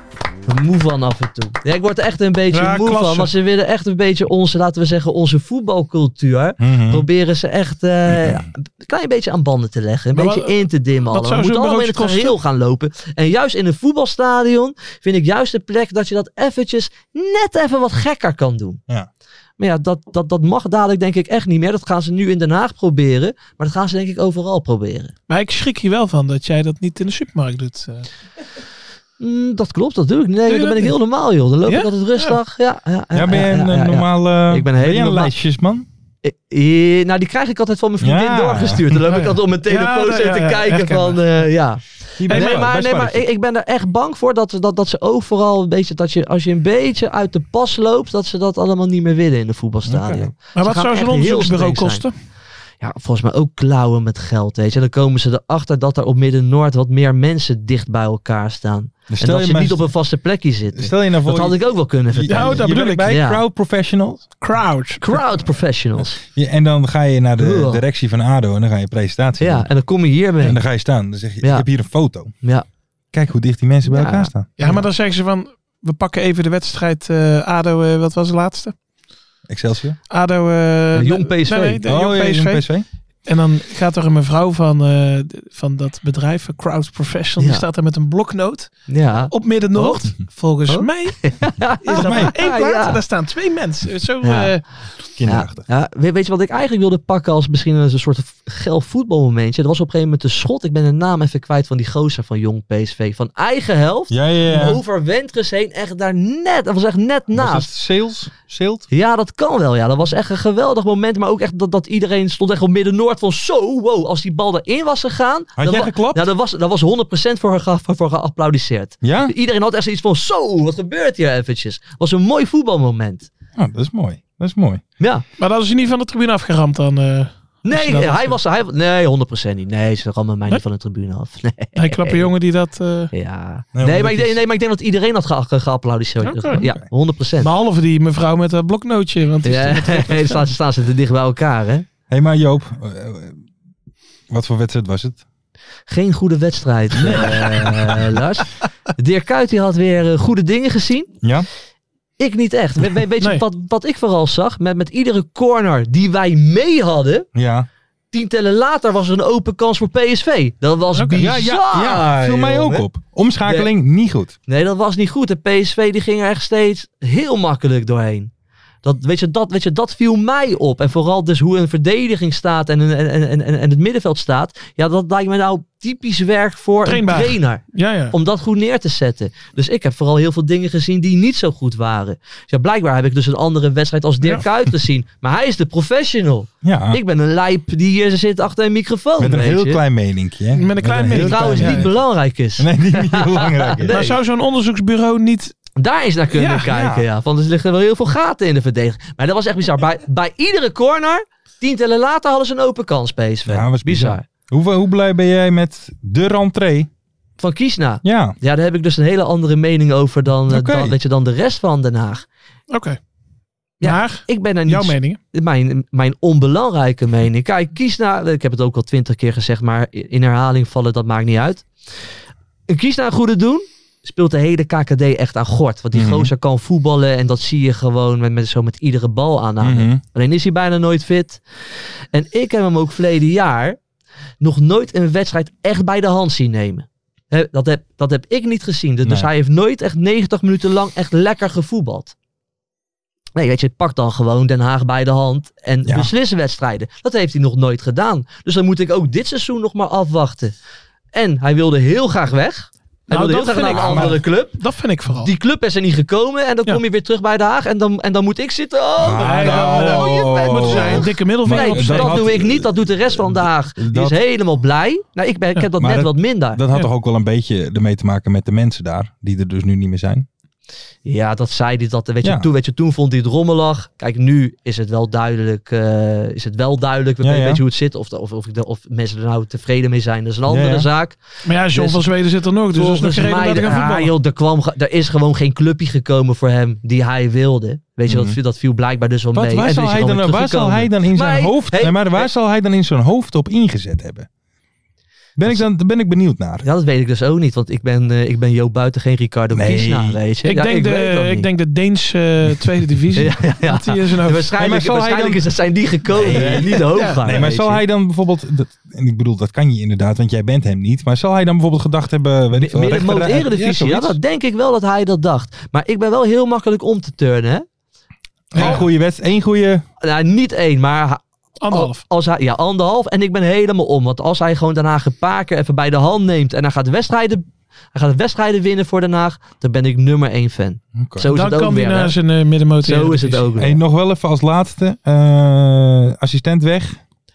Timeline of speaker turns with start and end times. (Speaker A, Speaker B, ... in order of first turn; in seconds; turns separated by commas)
Speaker A: 0.5-18.8, Speaker B: 2.5-3.3, Speaker C: 6.6-7.0, Speaker C: 8.1-8.4, Speaker B: 10.1-10.6, Speaker B: 11.1-12.4, Speaker A: 19.6-25.1, Speaker B: 25.3-28.1, Speaker A: 29.2-35.3, Speaker B: 30.5-30.9, Speaker B: 31.7-32.4, Speaker C: 33.1-35.9, Speaker A: 36.2-52.0, Speaker C: 38.0-38.9, Speaker B: 39.0-41.5, Speaker C: 42.2-43.3, Speaker B: 42.3-42.6, Speaker C: 49.9-50.3, Speaker B: 50.5-52.1, Speaker A: 52.8-63.4, Speaker C: 59.1-59.9, Speaker C: 60.8-64.2, Speaker B: 62.3-63.2, Speaker B: 64.4-65.2, Speaker A: 65.0-66.2, Speaker C: 66.3-69.7, Speaker A: 67.4-67.8, Speaker A: 69.4-70.6, Speaker C: 70.4-72.4, Speaker A: 71.4-71.7, Speaker C: 73.1-74.5, Speaker A: 73.9-74.8, Speaker B: 74.6-78.7, Speaker C: 79.5-80.0, Speaker B: 80.1-82.7, Speaker A: 80.9-81.8, Speaker C: 81.8-82.8, Speaker B: 83.3-94.6, Speaker A: 87.4-87.7, Speaker A: 88.9-90.1, Speaker A: 90.7-93.0, Speaker C: 92.0-92.3, Speaker A: 94.2-94.5, Speaker C: 95.2-95.6, Speaker A: 95.3-107.7, Speaker C: 104.1-104.8, Speaker C: 107.3-108.9, Speaker A: 108.9-123.3, Speaker C: 115.6-116.3, Speaker C: 119.0-119.3, Speaker C: 123.6-124.8, Speaker B: 125.4-128.4, Speaker A: 127.7-132.3, Speaker B: 131.8-133.1, Speaker A: 133.1-137.5, Speaker C: 133.8-134.4, Speaker B: 136.2-136.7, Speaker C: 136.6-136.9, Speaker B: 137.4-140.5, Speaker A: 139.4-141.9, Speaker C: 142.1-143.4, Speaker C: 144.3-145.2, Speaker A: 145.9-151.2, Speaker C: 146.9-148.1, Speaker C: 151.2-151.5, Speaker A: 152.2-157.3, Speaker C: 157.3-157.7, Speaker A: 158.1-162.9, Speaker B: 160.9-161.3, Speaker C: 161.2-164.3, Speaker A: 164.5-168.3, Speaker A: 168.8-189.8, Speaker B: 176.9-178.2, Speaker C: 186.6-187.0, Speaker C: 189.2-192.0, Speaker B: 190.5-191.9, Speaker A: 191.1-194.2, Speaker C: 192.6-194.1, Speaker B: 193.9-195.6, Speaker A: 195.8-204.3, Speaker B: 196.4-196.7, Speaker C: 196.7-197.1, Speaker C: 203.5-206.9, Speaker A: 207.4-212.3, Speaker C: 208.0-208.4, Speaker C: 210.5-211.0, Speaker B: 212.7-213.0, Speaker B: 213.8-215.2, Speaker A: 213.8-221.7, Speaker A: 222.7-231.4, Speaker C: 225.9-226.3, Speaker C: 229.6-230.0, Speaker A: 232.1-233.8, Speaker A: 234.4-242.2, Speaker A: 243.4-250.6, Speaker C: 245.9-246.1, Speaker A: 251.1-266.6, Speaker B: 253.1-255.3, Speaker C: 253.7-254.2, Speaker C: 259.0-264.2, Speaker B: 259.2-262.4, Speaker C: 265.8-270.3, Speaker A: 271.1-281.2, Speaker C: 272.2-272.5, Speaker C: 277.2-277.6, Speaker C: 280.5-280.9, Speaker B: 281.4-284.1, Speaker A: 281.7-282.1, Speaker A: 282.7-292.3, Speaker C: 288.1-288.4, Speaker C: 289.3-294.3, Speaker C: 295.4-296.6, Speaker A: 296.6-301.5, Speaker C: 299.5-300.2, Speaker B: 300.4-304.5, Speaker A: 303.2-307.8, Speaker C: 304.6-305.4, Speaker C: 306.1-314.2, Speaker B: 306.3-307.5, Speaker A: 312.5-317.6, Speaker C: 318.5-319.8, Speaker B: 318.6-318.8, Speaker A: 318.6-318.8, Speaker A: 320.0-332.2, Speaker B: 321.6-322.0, Speaker C: 331.0-331.3, Speaker B: 331.3-333.5, Speaker A: 332.8-333.8, Speaker C: 333.6-337.0